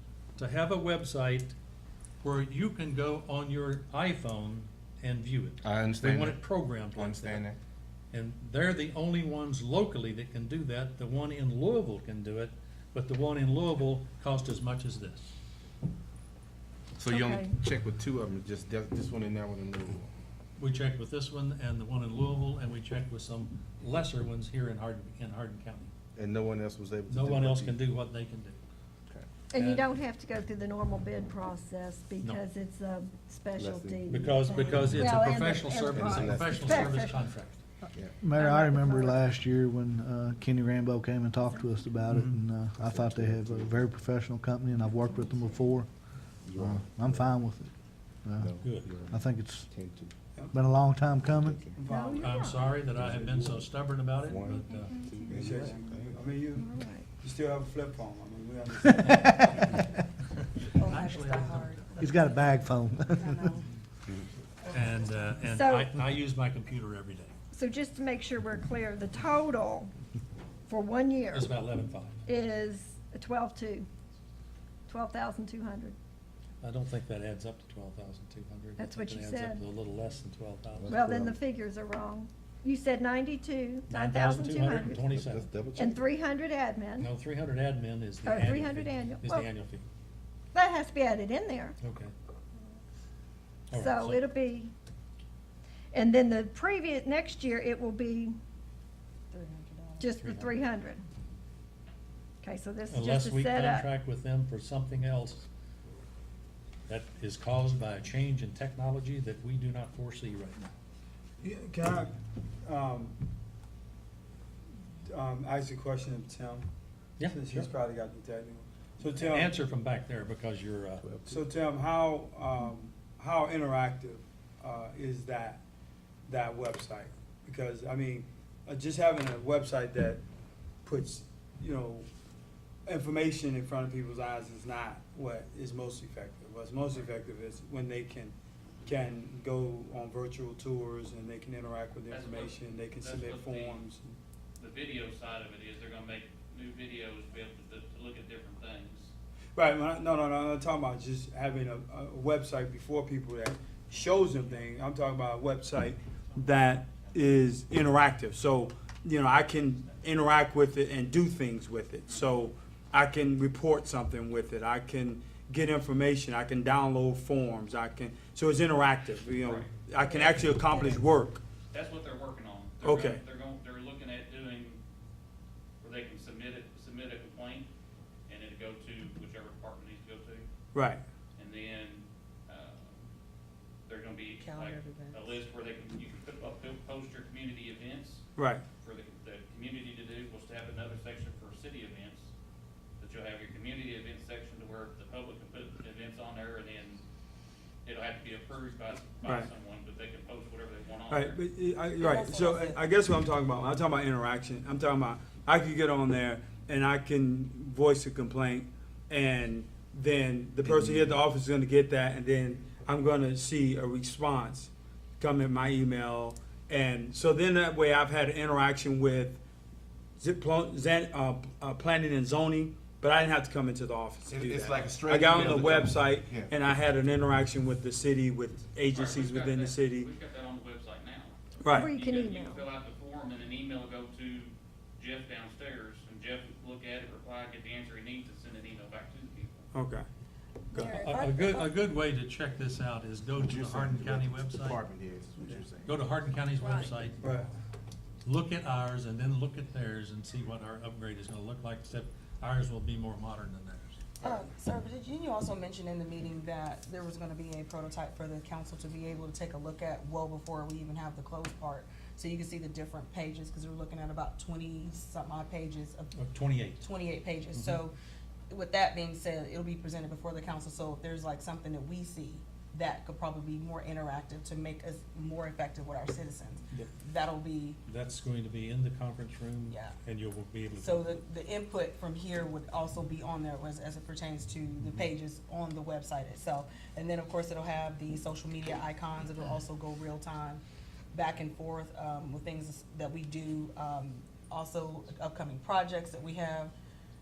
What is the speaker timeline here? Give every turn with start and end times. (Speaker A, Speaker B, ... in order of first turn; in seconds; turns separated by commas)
Speaker A: 0.4-1.5, Speaker A: 2.2-7.5, Speaker B: 5.6-7.6, Speaker A: 8.1-15.3, Speaker B: 17.0-20.1, Speaker C: 17.0-17.5, Speaker A: 20.6-25.9, Speaker B: 26.1-27.8, Speaker A: 27.1-28.6, Speaker C: 29.5-37.3, Speaker A: 29.6-29.9, Speaker B: 33.5-35.3, Speaker A: 34.1-37.6, Speaker B: 35.8-36.9, Speaker B: 37.9-38.2, Speaker D: 38.2-47.7, Speaker C: 38.3-39.3, Speaker B: 42.7-43.9, Speaker C: 45.0-45.6, Speaker B: 46.4-47.4, Speaker D: 48.2-49.7, Speaker B: 48.4-50.1, Speaker A: 48.6-48.9, Speaker D: 50.5-51.6, Speaker B: 51.2-51.9, Speaker E: 51.8-53.1, Speaker C: 51.8-52.6, Speaker A: 52.2-55.0, Speaker B: 52.9-56.4, Speaker C: 54.7-55.4, Speaker E: 55.2-56.7, Speaker C: 56.5-57.1, Speaker E: 57.2-59.6, Speaker A: 59.0-59.8, Speaker D: 59.1-59.7, Speaker A: 60.5-62.1, Speaker F: 60.8-63.7, Speaker D: 62.0-63.3, Speaker A: 64.7-67.3, Speaker C: 65.4-66.0, Speaker C: 67.5-69.9, Speaker C: 70.7-71.5, Speaker A: 71.3-72.2, Speaker C: 72.2-73.9, Speaker C: 74.9-76.0, Speaker A: 76.6-81.0, Speaker C: 78.8-79.6, Speaker B: 80.8-81.4, Speaker C: 80.9-85.0, Speaker A: 83.9-85.5, Speaker B: 85.0-86.0, Speaker C: 85.7-87.1, Speaker A: 87.0-89.8, Speaker C: 88.2-89.5, Speaker C: 90.5-91.8, Speaker A: 91.8-92.1, Speaker C: 93.7-94.7, Speaker A: 93.7-94.2, Speaker C: 95.9-98.4, Speaker F: 99.3-100.1, Speaker C: 100.0-101.0, Speaker A: 100.2-100.5, Speaker C: 102.4-103.9, Speaker A: 102.9-105.5, Speaker A: 106.9-110.7, Speaker E: 111.4-112.1, Speaker E: 112.6-113.2, Speaker E: 115.0-116.7, Speaker A: 117.2-117.7, Speaker E: 117.2-119.5, Speaker A: 119.2-121.1, Speaker B: 121.0-121.4, Speaker E: 121.3-125.6, Speaker E: 126.3-130.2, Speaker E: 130.8-132.1, Speaker E: 132.8-144.2, Speaker G: 142.1-143.8, Speaker G: 144.6-149.1, Speaker E: 149.5-171.4, Speaker G: 153.9-154.6, Speaker G: 156.6-157.1, Speaker G: 162.1-162.3, Speaker G: 169.4-170.9, Speaker G: 171.7-174.8, Speaker E: 172.8-173.2, Speaker G: 175.8-177.7, Speaker G: 178.3-180.5, Speaker E: 180.7-181.0, Speaker G: 181.4-183.1, Speaker G: 183.9-188.2, Speaker F: 184.4-185.4, Speaker E: 188.3-188.6, Speaker G: 188.8-192.3, Speaker G: 193.0-197.0, Speaker G: 197.8-201.4, Speaker E: 199.2-199.5, Speaker E: 201.1-219.4, Speaker F: 202.0-202.8, Speaker B: 210.6-211.2, Speaker E: 220.2-230.1, Speaker B: 224.2-226.5, Speaker G: 228.9-239.7, Speaker E: 231.6-231.9, Speaker C: 231.7-232.6, Speaker E: 239.7-240.0, Speaker E: 240.7-241.0, Speaker C: 240.7-241.7, Speaker A: 240.9-244.8, Speaker F: 241.0-241.3, Speaker B: 243.4-246.0, Speaker A: 245.8-247.2, Speaker C: 246.6-246.9, Speaker E: 247.2-247.5, Speaker A: 248.2-254.2, Speaker F: 254.2-266.1, Speaker A: 266.1-266.9, Speaker F: 266.8-267.9, Speaker A: 267.5-267.8, Speaker F: 268.5-277.8, Speaker A: 277.8-281.2, Speaker F: 279.7-280.0, Speaker F: 280.7-296.7